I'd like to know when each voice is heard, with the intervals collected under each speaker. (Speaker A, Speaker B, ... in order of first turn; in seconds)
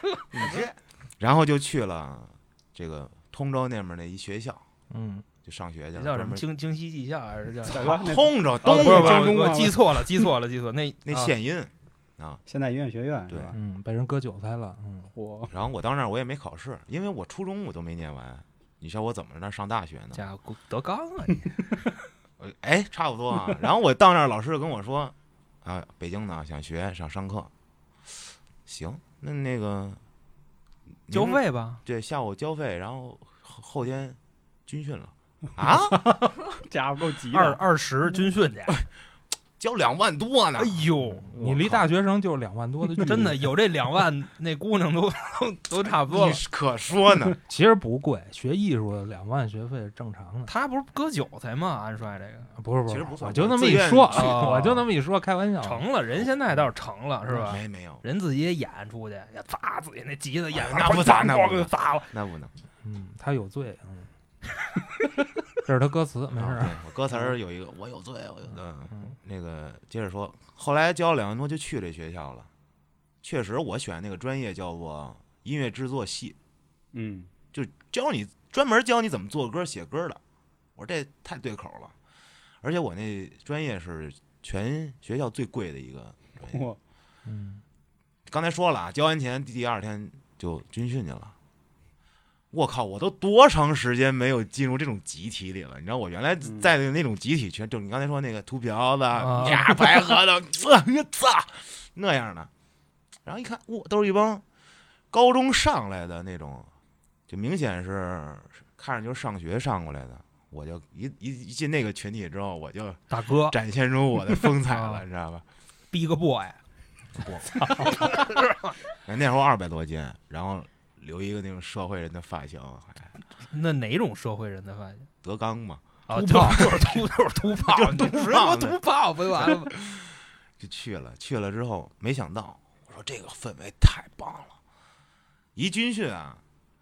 Speaker A: 0.3-4.6, 5.4-6.4, 7.8-9.6, 11.1-12.4, 13.3-13.5, 15.5-20.2, 22.4-27.5, 28.7-30.0, 31.1-36.1, 39.6-41.9, 46.1-47.4, 52.9-54.6, 57.5-58.0, 60.5-62.5, 66.3-72.5, 73.2-76.4, 77.5-80.2, 80.8-82.0, 82.6-86.6, 88.3-91.3, 92.5-102.5, 103.2-104.4, 105.1-106.7, 107.3-115.5, 117.2-118.0, 119.0-123.1, 125.2-126.9, 127.7-128.8, 129.4-134.6, 135.6-136.4
Speaker B: 4.9-5.3, 13.5-15.1, 41.3-43.5, 47.5-50.5, 52.5-55.9, 62.8-64.1, 65.7-66.8, 87.3-87.6, 126.1-126.6
Speaker C: 6.0-8.0, 8.6-11.3, 20.1-21.7, 31.1-31.8, 37.3-38.8, 40.6-41.3, 43.0-46.4, 50.5-52.5, 54.1-54.9, 55.6-62.1, 99.2-100.0, 113.1-113.6, 114.7-115.0, 115.9-116.6, 117.8-118.7, 123.5-125.1, 126.1-129.8
Speaker D: 7.7-9.8, 12.5-13.6, 15.1-15.5, 35.9-37.6, 76.9-77.3, 86.5-86.8, 96.4-96.7